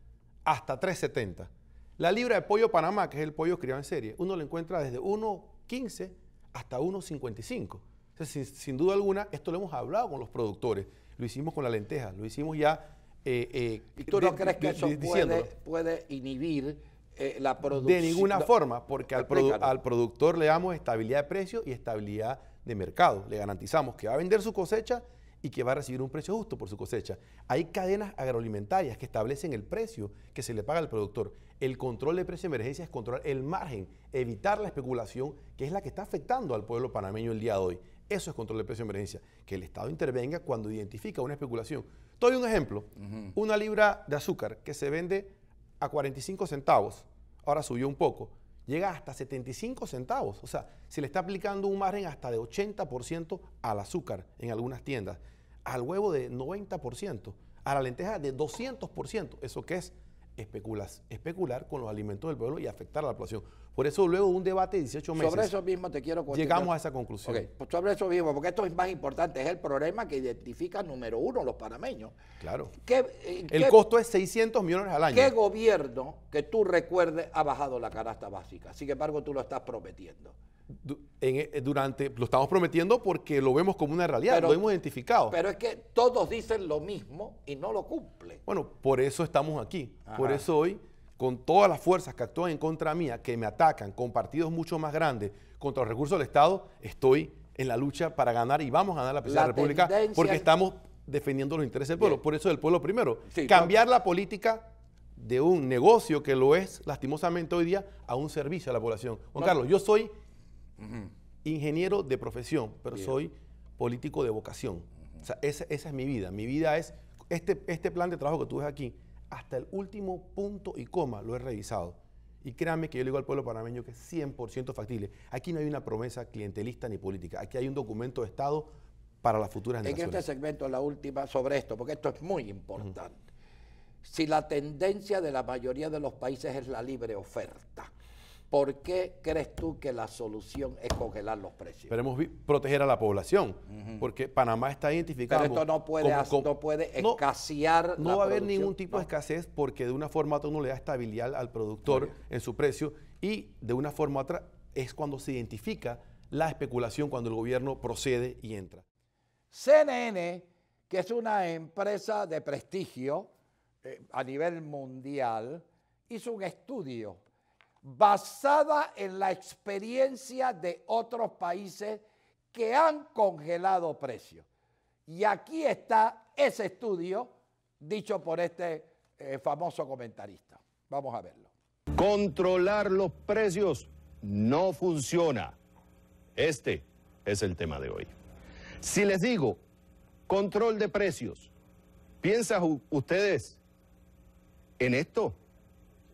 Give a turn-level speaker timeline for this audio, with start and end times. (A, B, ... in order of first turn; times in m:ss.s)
0:00.4-0:15.5 A
0:14.0-0:18.5 B
0:17.7-1:05.5 A
0:19.1-0:19.7 B
1:05.2-1:06.7 B
1:06.3-1:07.4 A
1:07.2-1:12.2 B
1:12.4-1:12.7 A
1:12.8-1:13.7 B
1:13.5-1:15.3 A
1:15.1-1:20.3 B
1:20.7-1:25.3 A
1:24.3-1:24.6 B
1:25.3-1:28.4 B
1:28.5-1:50.1 A
1:30.1-1:30.4 B
1:39.2-1:40.4 B
1:43.3-1:43.7 B
1:50.8-1:51.1 B
1:51.4-2:08.7 A
2:09.2-2:10.2 A
2:09.8-2:13.2 B
2:14.0-2:17.9 B
2:18.5-2:21.9 B
2:21.9-2:26.5 A
2:25.3-2:29.1 B
2:28.0-2:38.8 A
2:39.5-2:43.3 B
2:43.8-2:47.2 B
2:47.8-2:54.4 B
2:55.1-3:01.5 B
3:01.9-3:05.6 C
3:06.4-3:08.1 C
3:08.8-3:09.6 C
3:10.3-3:11.5 C
3:12.2-3:13.6 C
3:14.8-3:15.4 C